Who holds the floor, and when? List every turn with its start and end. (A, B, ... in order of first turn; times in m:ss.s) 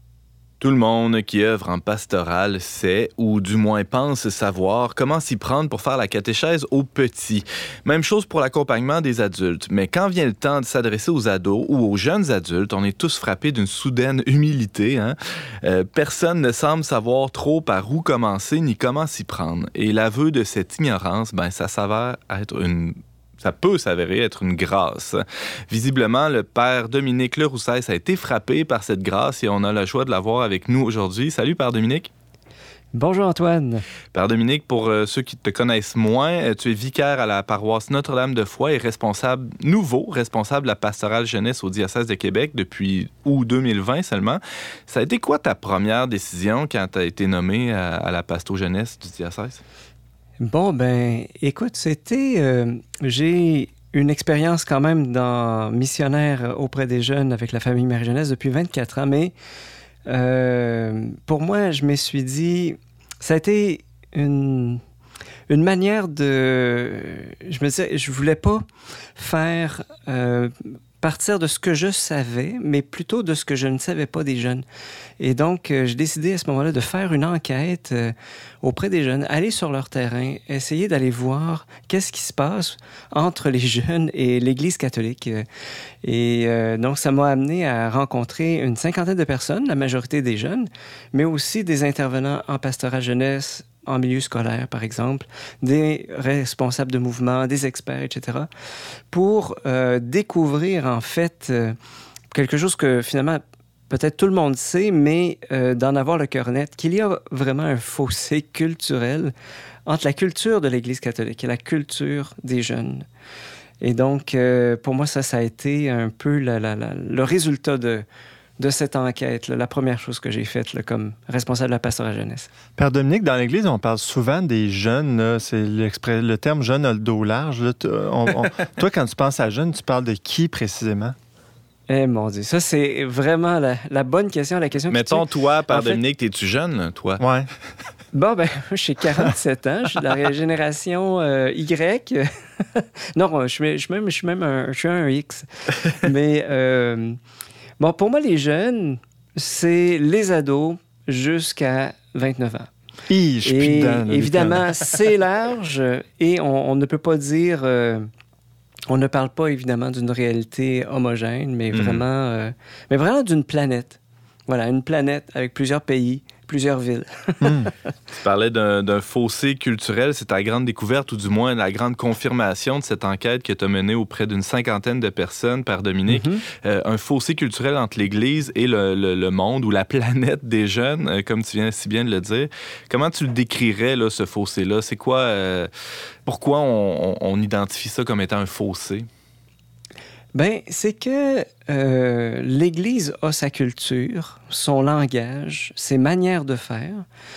0:00.6-0:32.1 A
0:32.9-0:33.8 B
0:34.1-0:49.6 A
0:50.4-0:59.3 B
1:00.1-1:04.8 B
1:05.5-1:08.6 B
1:09.2-1:14.6 B
1:15.2-1:25.4 B
1:26.0-1:38.5 B
1:39.1-1:41.8 B
1:42.3-1:49.3 B
1:49.8-1:53.0 B
1:53.8-1:58.0 B
1:58.6-2:02.5 B
2:02.8-2:11.2 C
2:11.9-2:16.0 B
2:14.9-2:17.2 A
2:17.2-2:17.5 C
2:18.1-2:27.2 B
2:27.8-2:32.7 B
2:33.1-2:34.7 C
2:33.4-2:38.1 B
2:38.9-2:47.7 B
2:41.7-2:42.0 A
2:47.4-2:47.7 C
2:48.2-3:05.7 A
2:56.1-2:56.4 B
3:06.2-3:09.1 A
3:10.3-3:17.0 B